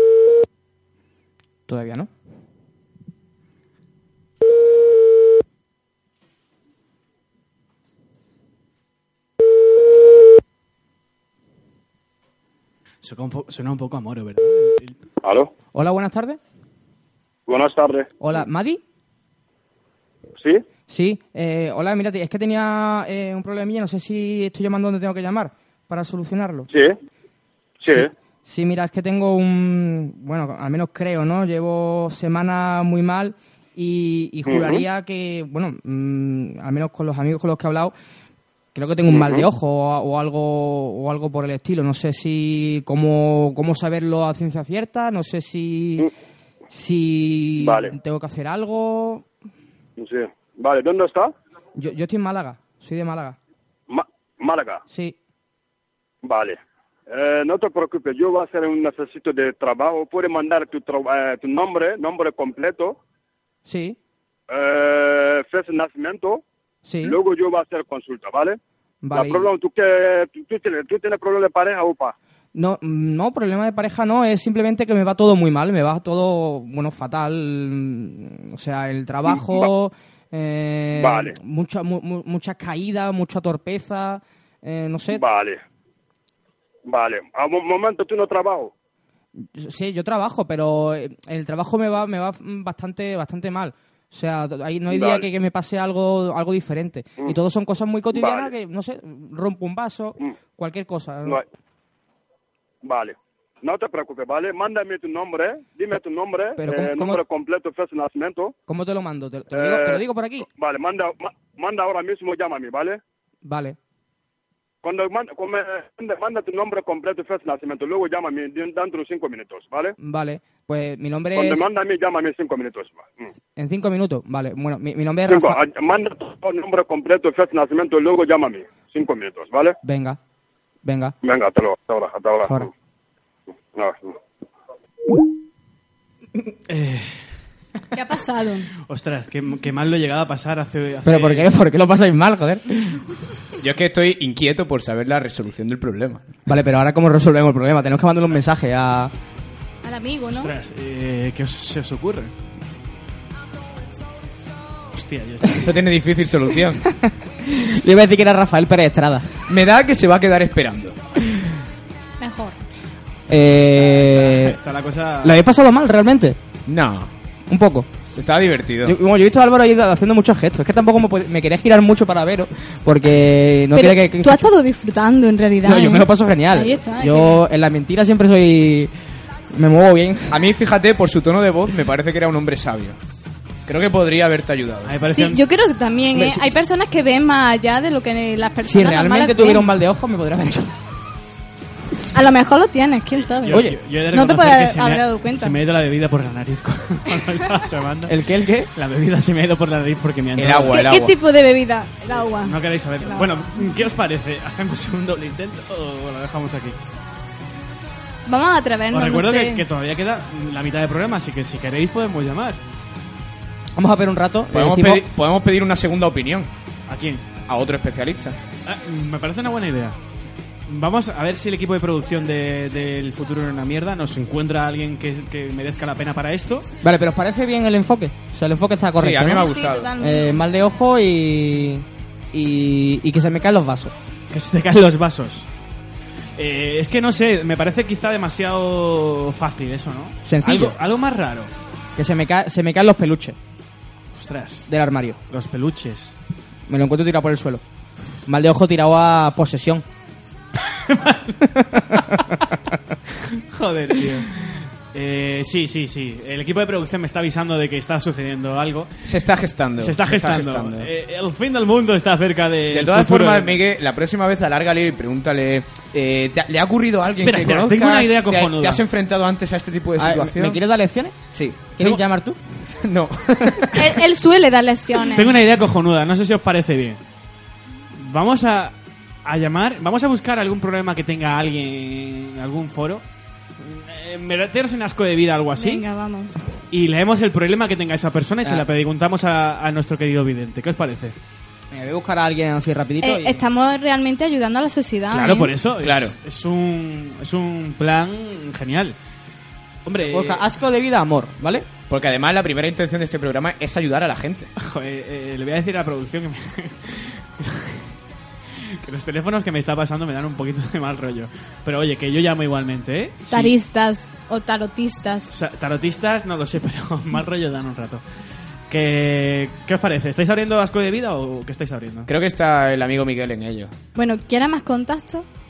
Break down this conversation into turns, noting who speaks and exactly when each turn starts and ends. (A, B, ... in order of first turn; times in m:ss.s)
0:01.7-0:02.1 A
0:13.0-0:15.0 B
0:15.2-0:15.5 C
0:15.7-0:16.4 A
0:17.5-0:18.1 C
0:18.2-0:18.8 A
0:20.9-0:26.7 A
0:26.7-0:26.9 C
0:27.8-0:28.1 C
0:27.9-0:37.9 A
0:34.4-0:34.8 C
0:38.7-0:46.1 A
0:39.1-0:39.4 C
0:46.7-0:49.2 A
0:47.6-0:47.9 C
0:50.0-0:51.3 C
0:51.8-0:53.4 A
0:53.9-0:54.8 C
0:54.9-0:55.2 A
0:56.2-0:56.6 C
0:57.1-1:03.0 C
1:03.6-1:04.0 A
1:04.5-1:06.4 C
1:06.8-1:07.2 A
1:07.0-1:08.6 C
1:09.0-1:09.5 A
1:09.1-1:12.1 C
1:12.5-1:25.2 A
1:19.2-1:19.7 C
1:21.0-1:21.4 C
1:25.1-1:25.6 C
1:26.9-1:28.7 C
1:29.4-1:41.4 A
1:34.9-1:35.3 C
1:38.1-1:38.5 C
1:42.8-1:48.5 C
1:46.6-1:47.2 A
1:48.7-1:50.5 A
1:49.5-1:53.0 C
1:53.4-1:53.8 A
1:54.8-1:59.9 C
2:00.0-2:01.6 A
2:01.3-2:03.3 C
2:03.6-2:05.6 A
2:05.3-2:09.8 C
2:09.8-2:10.2 A
2:10.8-2:11.1 A
2:11.2-2:12.7 C
2:13.7-2:14.1 C
2:16.7-2:17.2 B
2:17.9-2:18.7 D
2:18.8-2:21.5 B
2:21.0-2:23.0 A
2:23.6-2:26.2 E
2:26.4-2:29.1 A
2:29.8-2:30.5 D
2:30.4-2:32.3 B
2:34.9-2:35.7 B
2:35.6-2:36.8 E
2:36.8-2:39.4 A
2:39.5-2:41.0 E
2:42.2-2:42.6 D
2:43.3-2:44.6 A
2:43.8-2:45.4 B
2:45.2-2:46.4 A
2:46.7-2:47.1 E
2:47.5-2:47.9 A
2:48.1-2:49.0 E
2:48.8-2:54.4 A
2:53.7-2:57.4 D
2:55.6-2:58.9 A
2:59.5-3:00.4 A
3:00.3-3:03.0 E
3:03.6-3:05.0 E
3:04.8-3:05.4 B
3:05.1-3:09.7 D
3:06.1-3:06.6 A
3:08.6-3:10.7 A
3:12.1-3:15.6 D
3:13.3-3:18.1 B
3:13.5-3:13.7 A
3:18.1-3:18.7 A
3:18.7-3:20.8 B
3:20.4-3:21.1 E
3:20.7-3:23.7 D
3:22.4-3:26.8 B
3:28.2-3:29.6 D
3:28.9-3:32.6 B
3:33.8-3:35.0 A
3:34.5-3:36.5 E
3:36.9-3:37.2 B
3:37.5-3:38.4 E
3:38.6-3:40.0 B
3:40.7-3:46.7 B
3:46.8-3:53.9 A
3:48.9-3:49.9 E
3:49.3-3:50.4 D
3:54.3-3:55.5 B
3:56.4-4:01.5 B
4:00.2-4:00.8 A
4:02.0-4:03.4 A
4:04.1-4:04.7 B
4:04.7-4:05.2 A
4:05.3-4:06.1 B
4:06.7-4:07.6 A
4:08.2-4:09.8 A
4:10.7-4:11.4 B
4:11.6-4:12.1 A
4:13.2-4:19.0 B
4:19.0-4:20.9 E
4:19.8-4:23.6 B
4:22.7-4:30.6 E
4:27.2-4:28.8 B
4:30.0-4:31.2 A
4:31.3-4:32.0 E
4:31.7-4:32.4 A
4:32.7-4:33.9 E
4:33.7-4:35.4 D
4:35.1-4:37.0 B
4:37.9-4:43.0 B
4:43.6-4:45.8 B
4:45.6-4:46.3 D
4:46.7-4:51.2 B
4:51.7-4:53.4 A
4:53.0-4:55.5 D
4:55.1-4:59.0 B
4:55.2-4:56.1 E
4:59.8-5:00.4 B
5:00.0-5:01.7 A
5:01.9-5:04.5 E
5:04.6-5:07.9 B
5:08.6-5:13.5 B
5:13.3-5:15.3 D
5:15.3-5:18.0 B
5:18.7-5:22.1 B
5:22.1-5:23.7 E
5:23.9-5:25.2 D